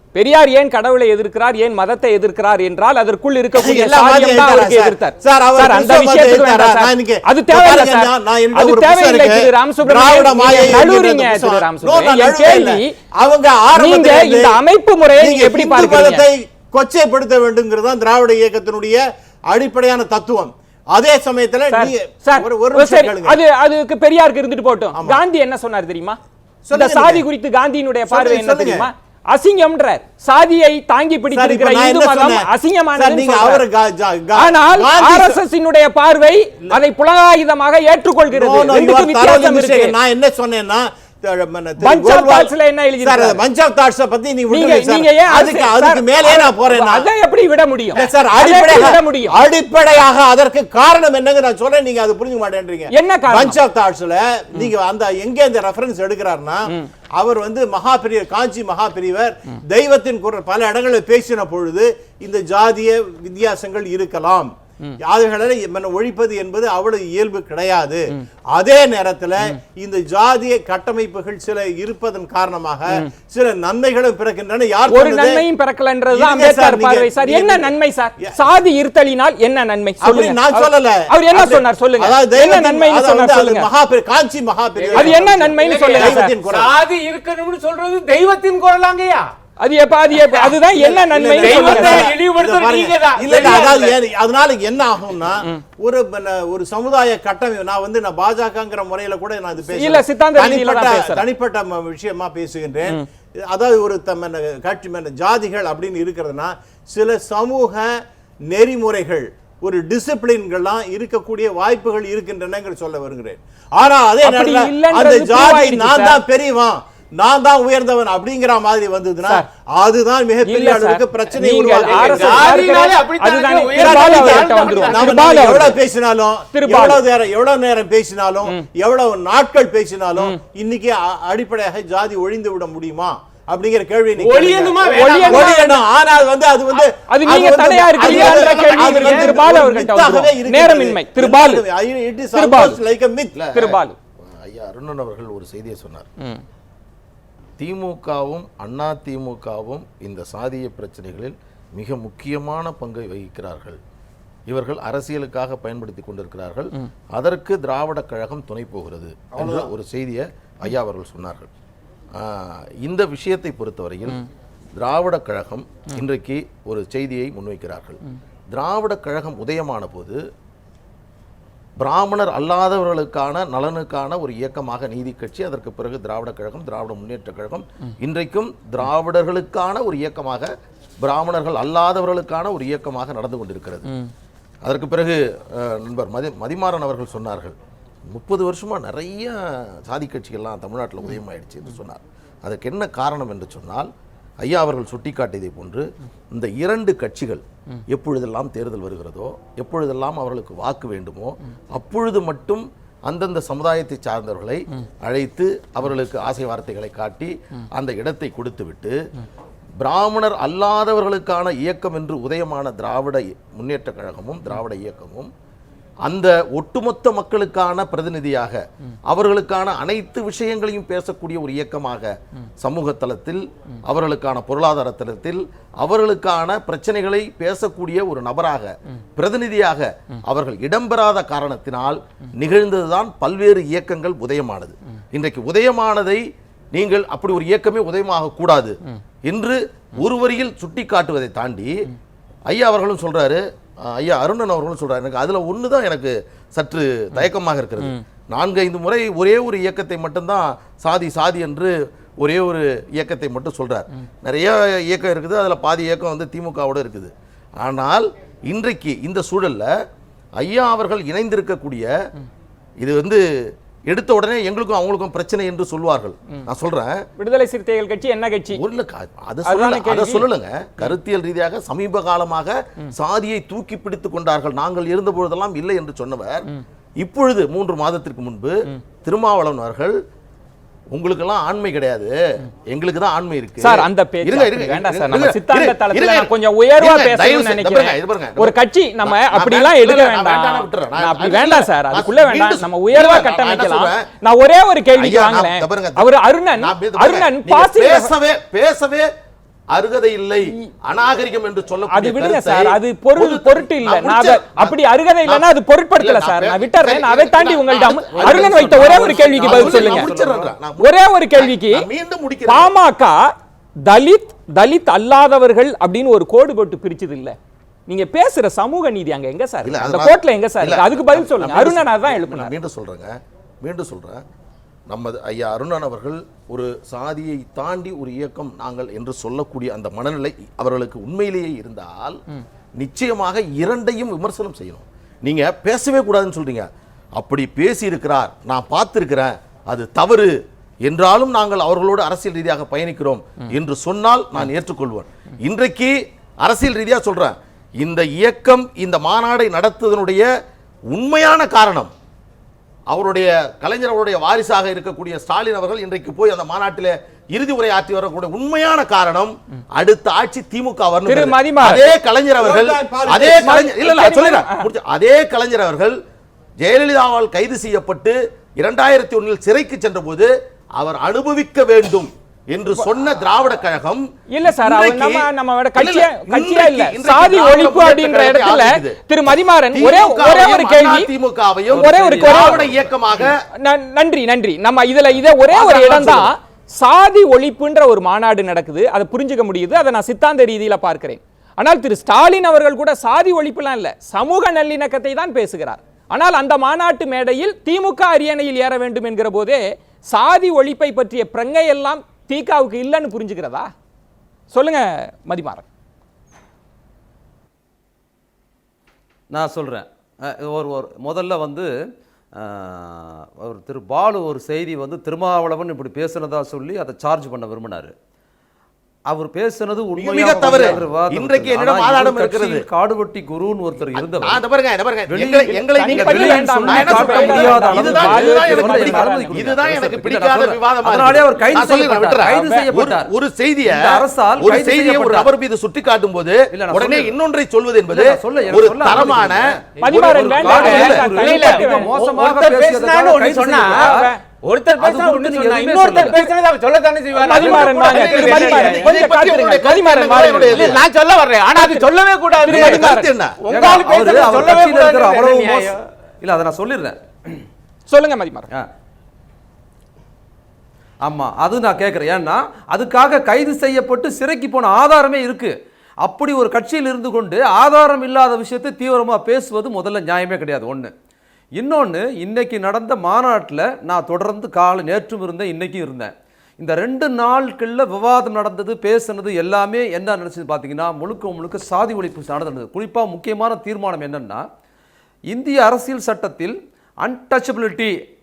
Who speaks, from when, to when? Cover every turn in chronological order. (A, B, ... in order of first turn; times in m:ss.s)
0:00.2-0:12.9 A
0:03.6-0:14.6 B
0:13.7-0:16.2 A
0:15.1-0:23.4 B
0:21.7-0:26.2 A
0:25.0-0:25.2 B
0:26.7-0:27.2 B
0:26.7-0:33.6 A
0:28.1-0:28.9 B
0:31.3-0:35.4 B
0:34.4-0:40.0 A
0:38.3-0:42.5 B
0:41.8-0:43.4 A
0:43.0-0:47.1 B
0:44.5-0:49.4 A
0:47.9-1:04.5 B
0:52.9-0:53.6 A
1:05.0-1:15.4 B
1:14.9-1:23.7 A
1:16.1-1:17.7 B
1:20.0-1:26.7 B
1:25.0-1:26.3 A
1:25.7-1:29.3 C
1:29.6-1:32.2 A
1:30.3-1:30.6 C
1:30.7-2:02.9 B
1:31.3-1:34.0 C
1:39.7-1:41.2 A
1:54.2-1:56.2 A
2:00.4-2:05.8 A
2:01.8-2:05.3 C
2:03.7-2:23.4 B
2:06.5-2:07.0 A
2:14.2-2:15.6 C
2:14.9-2:15.8 A
2:16.7-2:21.6 A
2:18.0-2:19.2 D
2:18.1-2:19.3 C
2:22.3-2:22.8 A
2:23.3-2:23.8 D
2:23.5-2:24.0 A
2:24.3-2:26.1 D
2:27.6-2:33.8 D
2:34.5-2:41.5 D
2:39.4-2:39.7 B
2:42.2-2:44.2 D
2:44.8-2:48.0 D
2:48.5-2:50.2 D
2:51.8-3:03.9 D
3:04.6-3:07.6 D
3:08.1-3:13.9 D
3:14.4-3:29.0 D
3:29.8-3:35.3 D
3:36.0-4:01.9 D
4:02.5-4:19.7 D
4:20.4-4:21.9 D
4:22.8-4:27.0 D
4:27.2-4:28.6 A
4:28.5-4:36.5 D
4:29.4-4:30.3 A
4:37.0-4:40.0 D
4:40.9-4:54.1 D
4:43.6-4:58.1 A
4:54.9-4:59.1 D
4:59.7-5:05.5 D
5:01.9-5:10.1 A
5:06.0-5:12.7 D
5:08.3-5:10.5 E
5:10.8-5:11.9 A
5:12.5-5:13.2 A
5:13.9-5:17.4 A
5:17.9-5:22.5 A
5:19.6-5:24.2 D
5:24.9-5:32.2 D
5:32.8-5:50.3 D
5:50.9-5:51.9 D
5:52.9-6:06.0 D
6:01.1-6:01.8 A
6:01.9-6:03.5 B
6:03.4-6:04.7 A
6:06.6-6:19.0 D
6:14.3-6:21.1 A
6:19.7-6:23.4 D
6:21.7-6:23.3 E
6:21.8-6:22.7 A
6:23.6-6:43.7 A
6:25.5-6:26.3 D
6:44.5-6:45.7 A
6:49.3-6:51.7 E
6:52.4-6:57.9 E
6:59.1-7:04.4 E
7:00.0-7:02.7 D
7:03.9-7:21.1 D
7:05.1-7:13.1 E
7:05.5-7:09.5 A
7:13.6-7:15.3 E
7:16.5-7:17.2 E
7:17.9-7:24.1 E
7:19.8-7:21.9 A
7:20.5-7:28.9 C
7:23.6-7:24.2 A
7:24.8-7:26.3 E
7:25.9-7:26.3 A
7:27.1-7:30.8 A
7:27.3-7:30.8 D
7:30.3-7:32.8 C
7:31.5-7:31.9 A
7:32.4-7:33.1 A
7:32.5-7:33.4 D
7:33.4-7:35.8 C
7:33.5-7:37.4 E
7:37.9-7:38.5 A
7:41.0-7:50.9 E
7:51.6-8:04.4 E
8:05.3-8:08.0 E